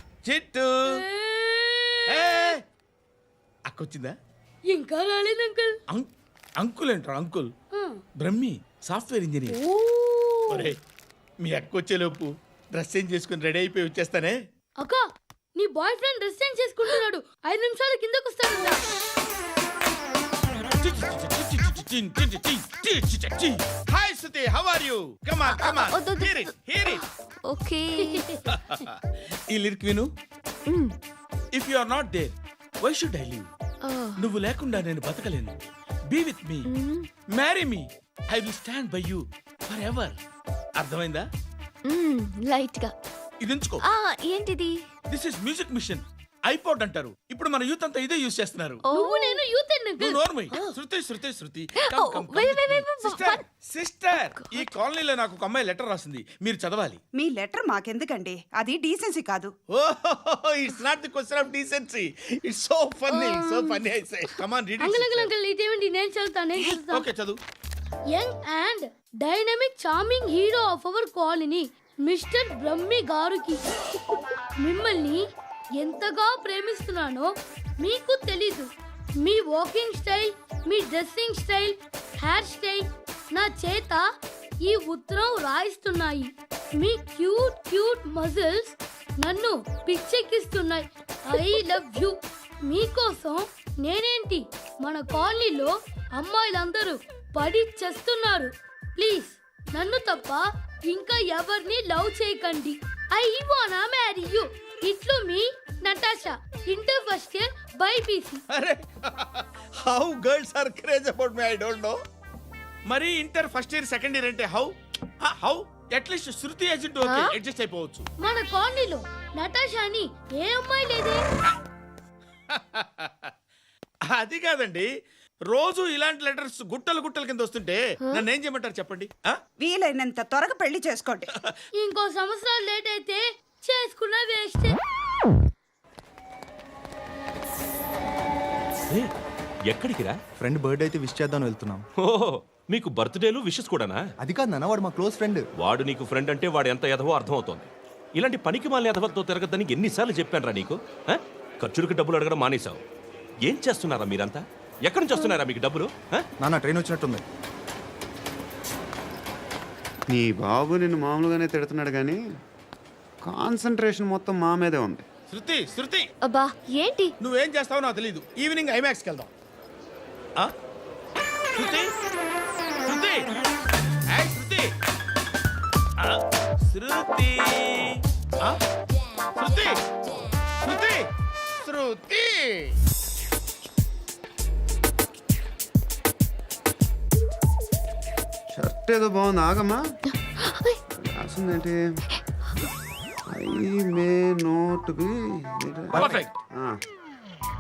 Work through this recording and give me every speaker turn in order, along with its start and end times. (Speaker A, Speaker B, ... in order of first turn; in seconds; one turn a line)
Speaker A: 0.2-1.0
Speaker B: 0.9-2.4
Speaker A: 2.1-2.6
Speaker A: 3.7-4.2
Speaker B: 4.7-5.8
Speaker A: 5.9-7.5
Speaker B: 7.7-8.0
Speaker A: 8.2-9.6
Speaker B: 9.7-10.7
Speaker A: 10.5-10.8
Speaker A: 11.4-14.4
Speaker B: 14.8-18.8
Speaker A: 20.8-27.0
Speaker C: 25.5-26.4
Speaker C: 27.5-28.3
Speaker A: 29.5-30.1
Speaker A: 31.5-33.5
Speaker C: 33.8-34.3
Speaker A: 34.2-35.6
Speaker A: 36.1-36.7
Speaker C: 36.7-37.1
Speaker A: 37.3-40.2
Speaker A: 40.8-41.3
Speaker C: 41.9-42.9
Speaker A: 43.4-43.8
Speaker C: 43.9-44.8
Speaker A: 45.1-48.8
Speaker C: 48.9-49.4
Speaker B: 48.9-50.2
Speaker A: 50.0-57.0
Speaker C: 51.8-53.4
Speaker D: 57.1-59.5
Speaker A: 59.7-65.3
Speaker C: 63.2-63.8
Speaker B: 64.8-67.1
Speaker A: 66.9-67.4
Speaker B: 68.1-73.6
Speaker B: 74.6-84.1
Speaker B: 84.6-108.4
Speaker A: 108.5-112.0
Speaker A: 112.9-118.1
Speaker C: 117.0-117.3
Speaker B: 118.2-121.2
Speaker A: 122.5-123.3
Speaker A: 124.1-124.9
Speaker A: 125.5-129.4
Speaker D: 129.6-131.3
Speaker B: 131.7-134.8
Speaker E: 139.7-140.2
Speaker F: 140.5-141.7
Speaker E: 142.0-144.1
Speaker F: 144.3-145.4
Speaker E: 145.6-152.8
Speaker E: 153.4-156.3
Speaker F: 156.5-157.2
Speaker G: 160.1-162.2
Speaker G: 163.2-165.1
Speaker A: 165.3-166.1
Speaker C: 166.2-167.1
Speaker A: 167.2-169.3
Speaker A: 171.6-171.9
Speaker A: 172.8-173.3
Speaker A: 174.1-174.7
Speaker A: 176.0-178.6
Speaker A: 179.3-179.8
Speaker A: 180.6-182.8
Speaker G: 188.5-189.8
Speaker C: 190.4-190.8
Speaker G: 191.0-191.8
Speaker G: 193.3-196.8
Speaker A: 196.0-196.3